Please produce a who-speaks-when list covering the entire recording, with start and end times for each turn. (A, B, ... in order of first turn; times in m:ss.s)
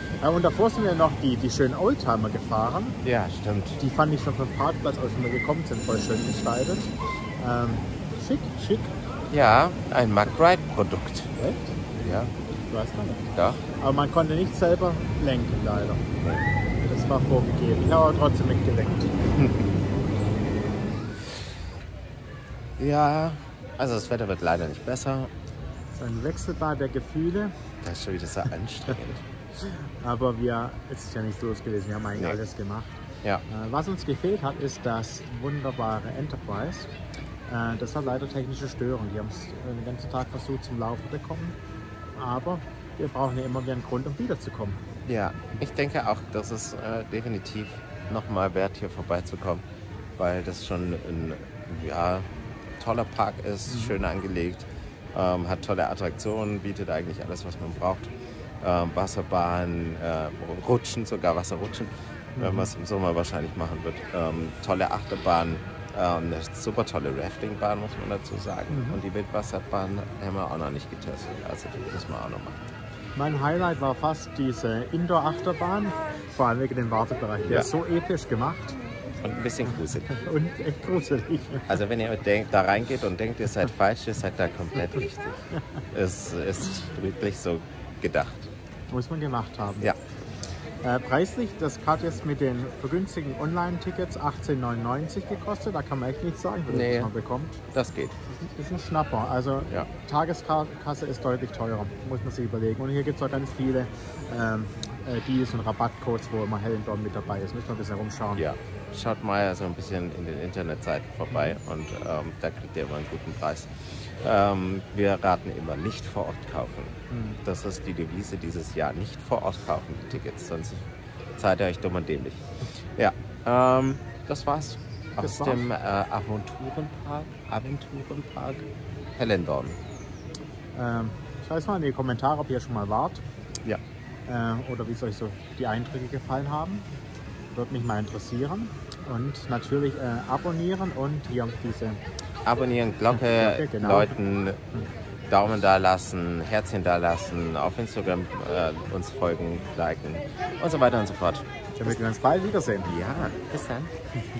0:00.2-0:03.0 A
0:03.0-0:03.8 B
0:03.8-0:08.9 A
0:09.3-0:11.3 B
0:11.4-0:11.8 A
0:12.0-0:12.3 B
0:12.7-0:16.1 A
0:13.4-0:13.6 B
0:16.8-0:19.3 A
0:22.8-0:25.3 B
0:25.9-0:27.5 A
0:27.8-0:29.2 B
0:29.6-0:36.9 A
0:37.5-0:41.6 A
0:42.2-0:44.8 A
0:45.0-0:49.6 B
0:50.2-0:52.3 B
0:52.8-1:12.6 B
0:53.7-0:53.9 A
1:02.4-1:02.7 A
1:08.7-1:09.0 A
1:13.2-1:18.8 A
1:19.2-1:20.2 B
1:19.7-1:21.7 A
1:21.7-1:28.5 B
1:28.9-1:29.9 A
1:30.8-1:37.6 A
1:36.7-1:37.1 B
1:37.7-1:38.2 B
1:38.3-1:48.4 A
1:48.4-2:00.9 B
1:57.1-1:57.4 A
2:01.4-2:08.7 B
2:05.2-2:05.6 A
2:09.2-2:09.8 B
2:10.8-2:13.2 A
2:14.3-2:16.9 A
2:17.5-2:22.0 A
2:22.5-2:24.6 B
2:23.2-2:24.1 A
2:25.3-2:32.0 B
2:31.8-2:32.9 A
2:32.8-2:33.9 B